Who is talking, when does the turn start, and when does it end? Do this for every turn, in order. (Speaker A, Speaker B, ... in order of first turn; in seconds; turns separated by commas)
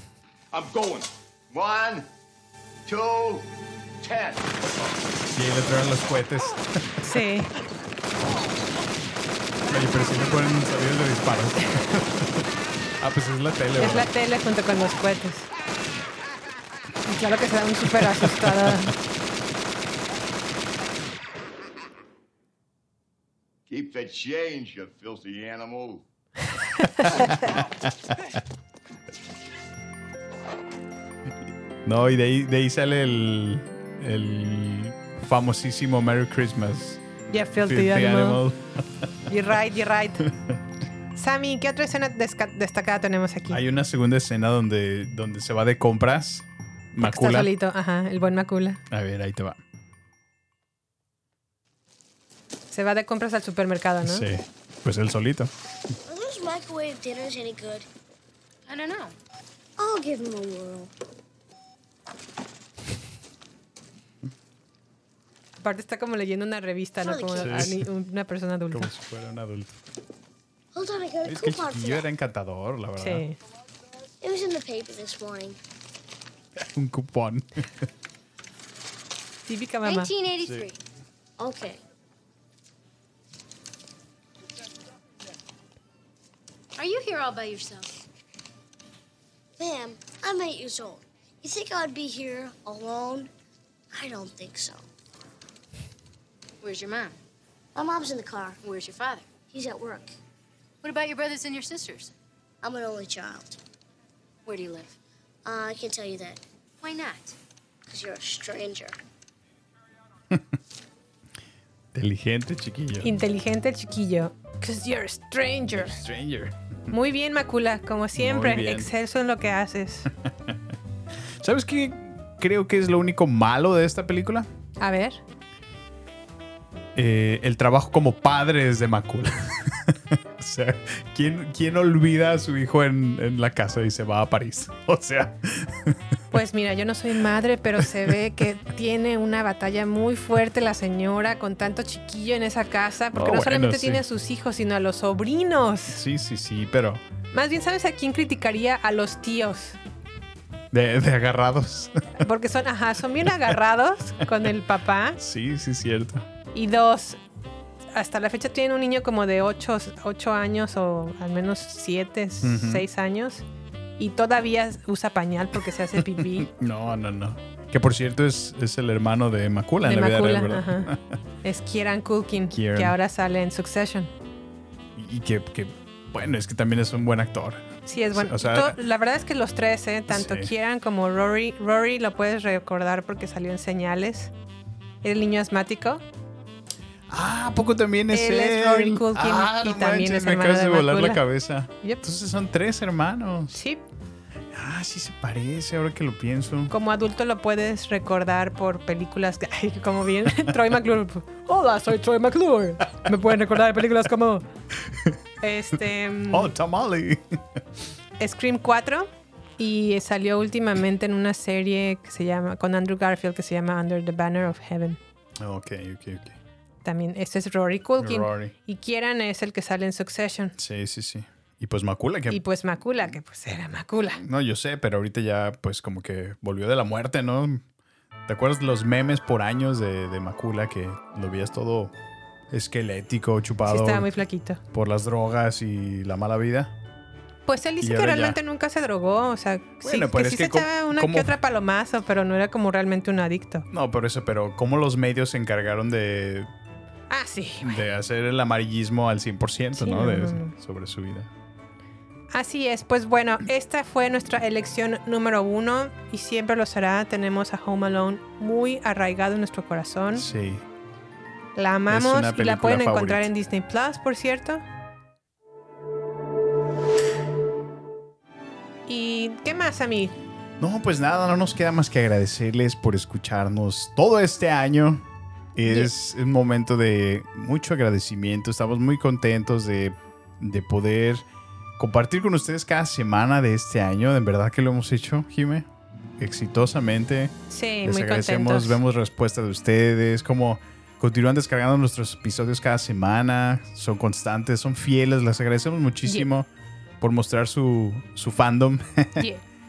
Speaker A: 0.5-2.1, Speaker A: 2.9-3.5, Speaker A: 4.0-4.5, Speaker B: 5.3-7.0, Speaker C: 7.0-7.5, Speaker B: 9.7-12.5, Speaker B: 13.0-14.1, Speaker C: 13.8-15.5, Speaker C: 17.1-19.0, Speaker B: 18.2-18.8, Speaker A: 23.7-26.0, Speaker C: 27.0-27.3, Speaker B: 27.1-27.5, Speaker B: 31.9-37.0, Speaker C: 37.3-38.4, Speaker B: 37.6-38.8, Speaker C: 39.3-40.3, Speaker C: 41.1-43.6, Speaker B: 43.5-47.5, Speaker C: 47.0-48.8, Speaker B: 48.9-49.6, Speaker C: 52.7-54.3, Speaker B: 54.0-55.5, Speaker D: 56.1-57.9, Speaker E: 58.7-59.1, Speaker D: 59.8-60.9, Speaker C: 65.6-68.9, Speaker D: 67.0-67.6, Speaker B: 67.4-67.9, Speaker B: 68.7-69.7, Speaker D: 70.7-72.1, Speaker B: 71.2-73.2, Speaker C: 73.0-73.4, Speaker D: 74.2-75.6, Speaker B: 76.7-77.9, Speaker C: 79.5-80.1, Speaker E: 79.8-80.8, Speaker B: 80.4-80.7, Speaker D: 81.4-81.8, Speaker E: 86.8-87.9, Speaker D: 89.6-93.3, Speaker D: 93.9-94.9, Speaker E: 96.6-97.2, Speaker D: 97.8-98.6, Speaker E: 98.6-99.3, Speaker D: 99.5-100.2, Speaker E: 100.8-102.1, Speaker D: 102.6-103.6, Speaker E: 104.5-105.0, Speaker D: 105.5-106.4, Speaker E: 106.8-107.3, Speaker D: 107.9-109.0, Speaker B: 112.0-113.1, Speaker C: 113.0-116.0, Speaker B: 115.7-116.5, Speaker C: 116.9-120.1, Speaker B: 118.2-118.9, Speaker B: 121.4-124.5, Speaker C: 124.8-125.2, Speaker B: 127.0-136.0, Speaker C: 136.3-146.0, Speaker B: 137.8-138.1, Speaker B: 143.1-144.0, Speaker B: 145.9-147.0, Speaker C: 147.3-149.8, Speaker B: 150.7-152.2, Speaker C: 152.2-155.2, Speaker B: 153.3-153.6, Speaker B: 155.2-156.3, Speaker C: 156.5-157.2, Speaker C: 157.9-163.4, Speaker B: 162.4-162.8, Speaker C: 164.0-166.5, Speaker B: 166.4-171.2, Speaker C: 169.8-170.9, Speaker C: 171.4-174.1, Speaker B: 172.5-172.9, Speaker B: 175.0-178.8, Speaker C: 177.9-184.3, Speaker B: 180.1-180.5, Speaker C: 185.0-186.0, Speaker B: 187.1-193.6, Speaker C: 188.1-191.2, Speaker C: 193.5-193.8, Speaker B: 194.5-196.7, Speaker C: 196.7-204.4, Speaker C: 205.4-206.5, Speaker B: 206.3-207.4, Speaker C: 208.2-215.0, Speaker B: 215.4-216.4, Speaker C: 216.8-220.6, Speaker B: 218.0-218.5, Speaker B: 220.6-222.4, Speaker C: 222.3-224.2, Speaker B: 224.2-227.6, Speaker B: 228.3-231.9, Speaker B: 232.5-234.1, Speaker C: 233.7-234.6, Speaker B: 234.7-236.7, Speaker C: 237.5-243.7, Speaker B: 237.8-238.4, Speaker B: 239.8-241.4, Speaker B: 243.7-246.5, Speaker C: 247.1-247.8, Speaker B: 247.6-251.3, Speaker C: 249.8-250.5, Speaker C: 252.3-260.2, Speaker B: 260.1-260.6, Speaker C: 261.6-264.6, Speaker B: 261.9-263.3, Speaker C: 268.9-270.1, Speaker B: 270.6-275.0, Speaker B: 275.6-281.2, Speaker B: 281.8-285.7, Speaker B: 286.2-296.5, Speaker C: 287.5-288.8, Speaker B: 297.0-299.2